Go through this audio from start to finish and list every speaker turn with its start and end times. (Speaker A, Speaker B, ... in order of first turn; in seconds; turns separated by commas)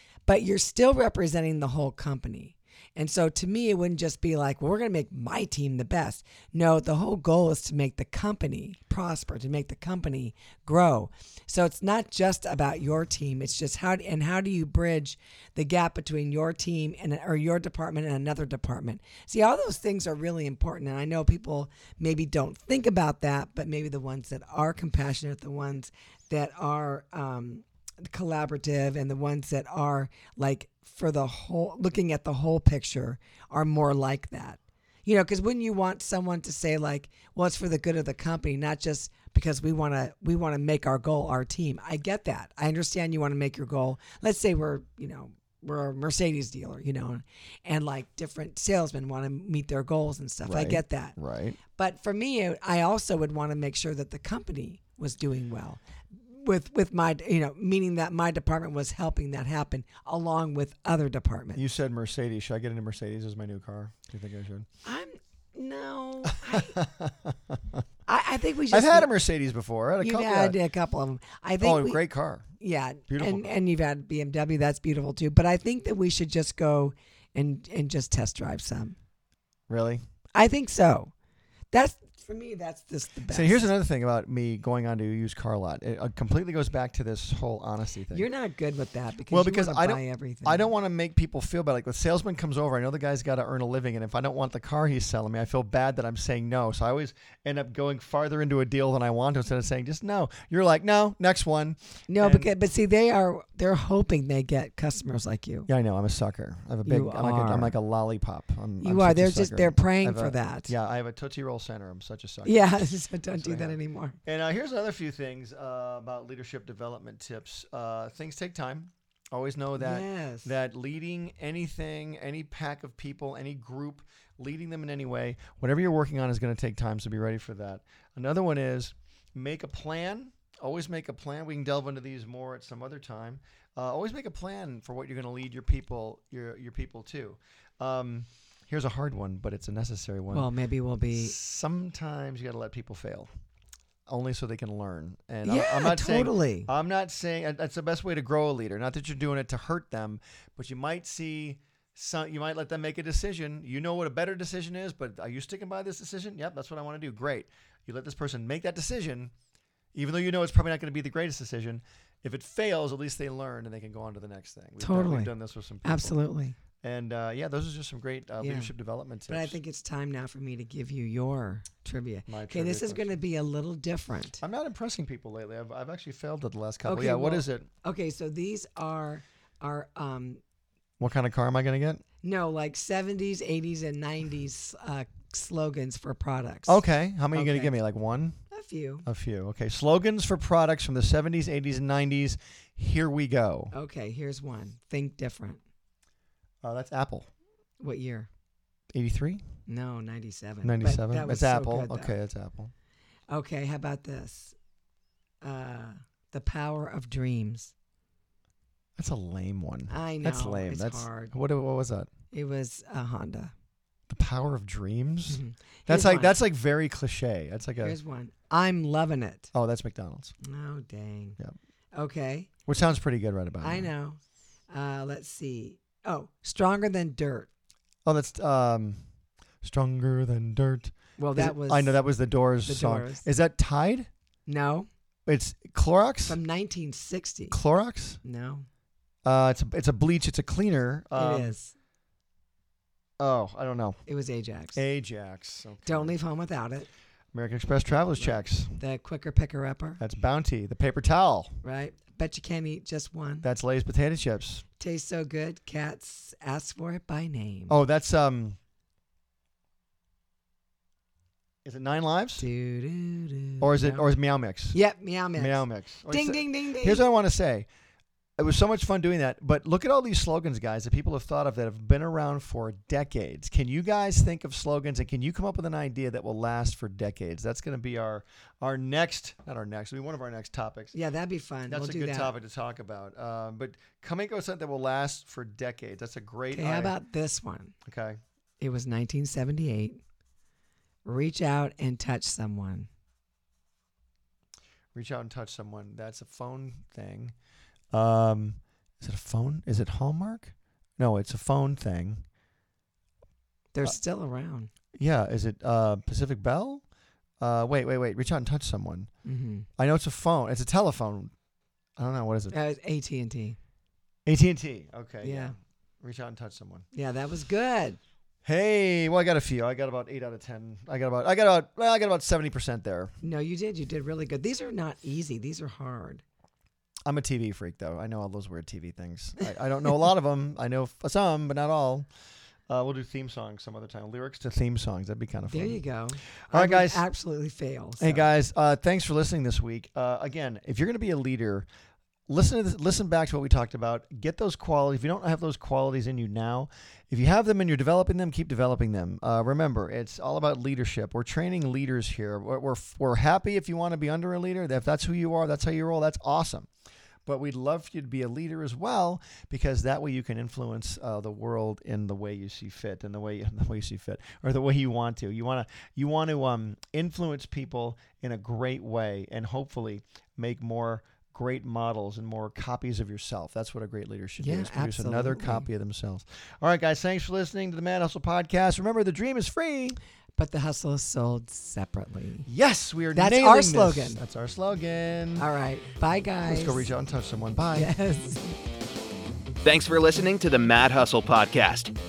Speaker A: 0.3-51.2, Speaker B: 50.4-51.6, Speaker A: 51.7-61.6, Speaker B: 61.5-64.7, Speaker A: 64.8-66.8, Speaker B: 66.3-67.8, Speaker A: 68.1-69.1, Speaker B: 68.7-70.5, Speaker A: 70.0-72.0, Speaker B: 71.6-72.5, Speaker A: 72.6-79.0, Speaker B: 73.1-73.5, Speaker B: 79.7-80.0, Speaker A: 80.3-81.1, Speaker A: 81.7-83.7, Speaker B: 83.3-88.2, Speaker A: 88.1-90.7, Speaker B: 89.3-102.5, Speaker A: 102.1-105.7, Speaker B: 105.7-140.5, Speaker A: 106.8-107.7, Speaker A: 108.8-110.7, Speaker A: 112.4-114.2, Speaker A: 119.8-120.5, Speaker A: 140.3-141.3, Speaker B: 141.1-143.3, Speaker B: 144.1-159.3, Speaker A: 145.4-146.7, Speaker B: 159.9-166.2, Speaker A: 164.8-165.3, Speaker A: 165.8-166.6, Speaker B: 166.8-169.6, Speaker A: 168.4-168.7, Speaker A: 169.3-174.4, Speaker B: 172.3-173.2, Speaker B: 174.4-177.7, Speaker A: 176.8-180.4, Speaker B: 181.0-182.0, Speaker A: 182.2-186.8, Speaker B: 186.7-188.4, Speaker A: 187.3-187.7, Speaker A: 188.5-189.1, Speaker B: 189.1-193.7, Speaker A: 193.7-195.6, Speaker B: 196.6-197.3, Speaker A: 197.8-198.3, Speaker B: 198.9-199.4, Speaker A: 199.7-202.1, Speaker B: 200.6-202.7, Speaker A: 203.3-204.6, Speaker A: 205.4-207.7, Speaker B: 209.0-212.1, Speaker A: 209.9-211.3, Speaker A: 212.3-213.5, Speaker B: 214.1-218.0, Speaker A: 215.3-216.4, Speaker A: 217.8-219.5, Speaker B: 219.5-220.3, Speaker A: 220.4-221.4, Speaker A: 221.9-222.5, Speaker B: 222.7-223.9, Speaker A: 223.6-224.2, Speaker A: 224.7-227.5, Speaker B: 228.0-229.0, Speaker B: 229.6-234.1, Speaker A: 231.2-232.0, Speaker A: 232.6-233.3, Speaker A: 234.5-234.9, Speaker B: 235.2-236.4, Speaker A: 236.3-237.6, Speaker B: 237.5-238.2, Speaker A: 238.2-238.7, Speaker B: 239.2-241.6, Speaker A: 241.2-241.7, Speaker B: 243.2-244.0, Speaker A: 244.1-244.8, Speaker B: 244.7-246.1, Speaker A: 245.8-246.9, Speaker B: 247.3-248.8, Speaker A: 248.2-250.0, Speaker B: 250.0-251.6, Speaker A: 251.6-253.5, Speaker B: 253.4-254.6, Speaker A: 254.8-257.7, Speaker B: 257.7-258.6, Speaker B: 261.6-262.4, Speaker A: 262.4-264.1, Speaker B: 263.6-264.8, Speaker A: 264.7-267.0, Speaker B: 265.4-267.7, Speaker B: 268.4-280.9, Speaker A: 280.9-282.3, Speaker B: 281.7-286.9, Speaker A: 286.5-287.7, Speaker B: 287.8-288.2, Speaker A: 288.6-290.0, Speaker A: 291.0-292.9, Speaker B: 294.9-297.3, Speaker B: 297.9-302.2, Speaker A: 303.7-304.7, Speaker B: 304.9-306.8, Speaker B: 307.4-309.1, Speaker A: 309.2-309.7, Speaker B: 309.8-311.3, Speaker B: 312.0-312.5, Speaker A: 312.5-313.6, Speaker B: 314.2-316.8, Speaker A: 315.2-315.5, Speaker A: 316.9-318.0, Speaker B: 318.4-323.1, Speaker A: 323.2-326.2, Speaker B: 327.1-332.1, Speaker B: 332.7-335.8, Speaker A: 335.5-338.3, Speaker B: 336.5-337.0, Speaker B: 338.0-341.7, Speaker B: 342.3-356.7, Speaker B: 357.2-380.0, Speaker A: 374.4-375.6, Speaker A: 380.4-382.5, Speaker B: 382.5-385.4, Speaker A: 383.1-384.2, Speaker A: 385.4-386.9, Speaker B: 386.5-387.9, Speaker A: 387.7-388.5, Speaker C: 389.6-391.9